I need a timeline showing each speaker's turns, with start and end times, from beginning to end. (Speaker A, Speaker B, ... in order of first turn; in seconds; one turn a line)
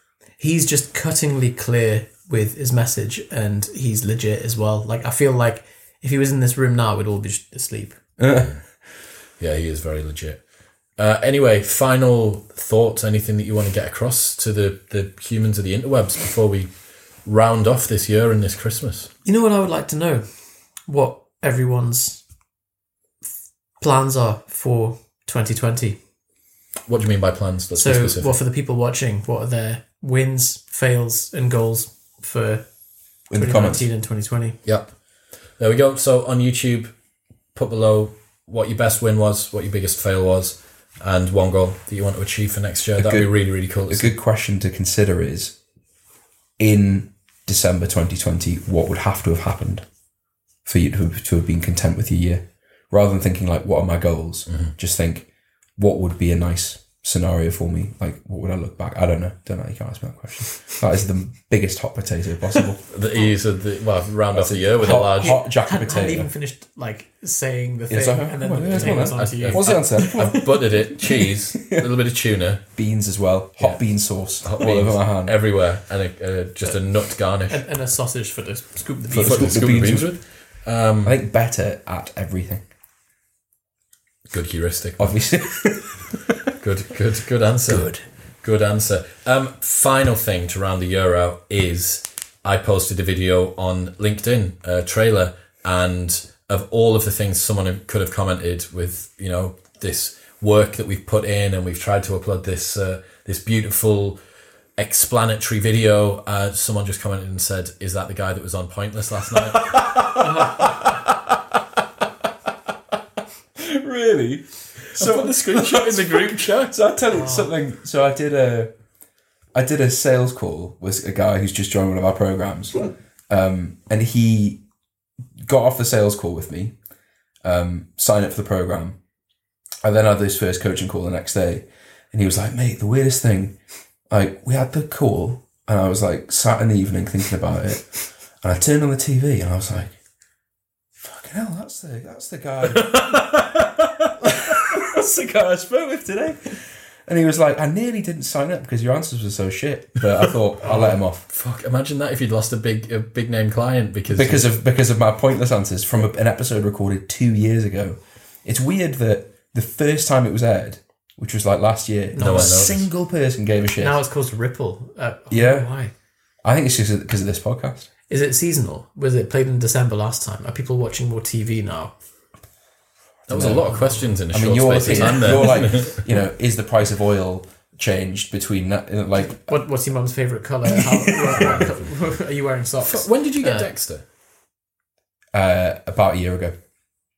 Speaker A: 0.4-8.0
Speaker B: 8.2-8.6
Speaker C: 8.3-8.6
Speaker C: 9.4-10.4
Speaker C: 11.0-16.7
Speaker C: 17.2-19.1
Speaker A: 19.2-20.2
Speaker A: 20.9-22.2
Speaker A: 23.8-26.0
Speaker C: 26.9-28.3
Speaker A: 27.7-32.6
Speaker B: 33.3-33.9
Speaker A: 33.3-34.6
Speaker C: 34.6-34.9
Speaker C: 35.6-36.9
Speaker C: 37.5-44.1
Speaker B: 43.0-45.5
Speaker B: 46.6-49.8
Speaker B: 50.6-62.8
Speaker C: 62.9-65.4
Speaker B: 64.3-66.3
Speaker A: 64.8-70.6
Speaker B: 67.9-71.8
Speaker C: 68.6-72.6
Speaker B: 72.7-75.3
Speaker C: 74.4-77.6
Speaker A: 76.6-79.6
Speaker B: 79.1-80.1
Speaker C: 79.1-81.2
Speaker B: 81.0-82.7
Speaker C: 84.3-85.2
Speaker B: 85.0-86.3
Speaker C: 86.6-87.9
Speaker B: 87.7-88.0
Speaker C: 88.4-104.2
Speaker C: 104.8-110.5
Speaker B: 109.4-111.3
Speaker A: 110.2-110.7
Speaker B: 113.6-118.7
Speaker C: 114.9-116.8
Speaker A: 117.1-117.5
Speaker B: 119.5-124.6
Speaker B: 125.4-126.7
Speaker B: 127.4-129.0
Speaker B: 129.8-133.5
Speaker B: 134.1-140.0
Speaker B: 141.0-143.4
Speaker B: 144.2-151.2
Speaker C: 150.6-154.5
Speaker B: 154.1-164.0
Speaker A: 162.1-162.7
Speaker C: 162.2-162.8
Speaker A: 163.8-165.9
Speaker B: 165.3-165.7
Speaker B: 166.4-167.9
Speaker A: 168.1-171.9
Speaker B: 173.3-173.7
Speaker C: 173.3-176.0
Speaker A: 173.7-174.0
Speaker B: 174.3-179.5
Speaker A: 179.3-183.7
Speaker B: 181.3-181.7
Speaker C: 182.8-184.0
Speaker B: 185.3-186.5